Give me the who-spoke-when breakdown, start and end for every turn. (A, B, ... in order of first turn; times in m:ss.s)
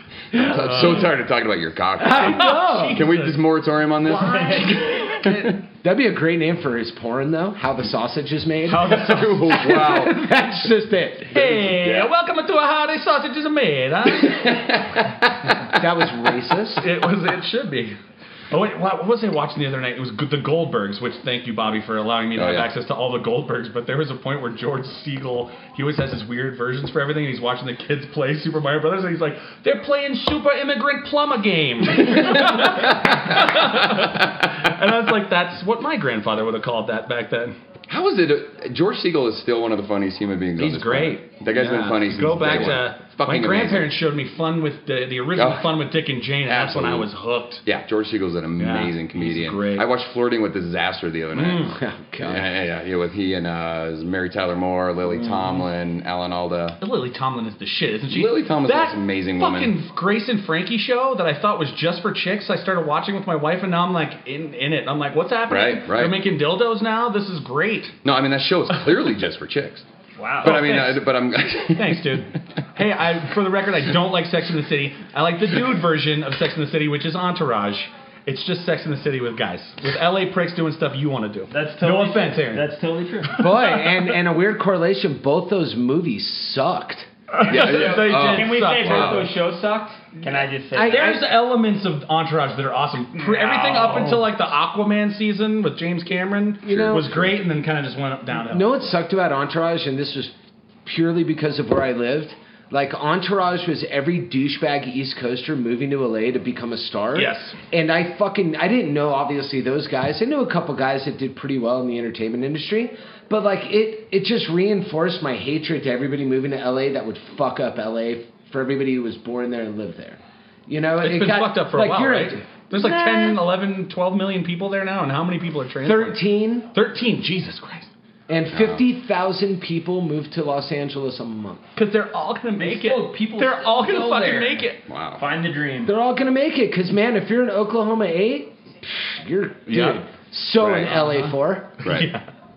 0:00.3-0:05.5 A
0:00.3-0:01.1 B
0:02.0-0:03.0 C
0:02.0-0:03.5 B
0:04.0-0:05.5 B
0:04.1-0:04.7 D
0:05.8-0:11.4 C
0:08.7-0:10.0 B
0:08.8-0:10.2 A
0:11.3-0:12.1 A
0:11.3-0:14.9 B
0:14.2-0:15.8 A
0:15.7-0:16.9 C
0:16.8-0:17.9 B
0:18.5-0:37.5 B
0:22.4-0:22.7 A
0:32.1-0:34.4 A
0:37.9-0:43.9 A
0:40.6-0:47.6 B
0:45.4-0:45.7 A
0:46.4-0:47.1 A
0:47.6-0:56.8 A
0:48.6-0:49.9 B
0:51.3-0:51.7 B
0:51.7-0:52.5 C
0:55.1-0:55.6 B
0:56.8-1:08.0 B
0:58.1-0:59.7 A
1:05.5-1:06.2 A
1:08.0-1:09.8 A
1:10.2-1:10.7 D
1:10.4-1:12.2 A
1:10.4-1:11.0 B
1:11.7-1:22.7 B
1:21.5-1:23.4 D
1:23.4-1:24.0 B
1:23.4-1:27.1 C
1:27.3-1:29.3 B
1:27.4-1:31.2 D
1:27.4-1:29.3 A
1:30.7-1:31.3 C
1:30.8-1:38.9 B
1:33.1-1:34.2 D
1:36.6-1:37.3 C
1:38.5-1:40.3 C
1:40.8-2:03.4 C
1:47.1-1:47.6 B
2:01.0-2:06.2 B
2:05.8-2:06.7 C
2:06.7-2:07.9 B
2:08.3-2:11.7 C
2:08.5-2:08.8 A
2:11.8-2:14.8 B
2:12.6-2:16.0 D
2:14.9-2:15.2 A
2:15.8-2:21.8 C
2:20.6-2:21.0 A
2:20.9-2:22.2 B
2:21.8-2:22.1 A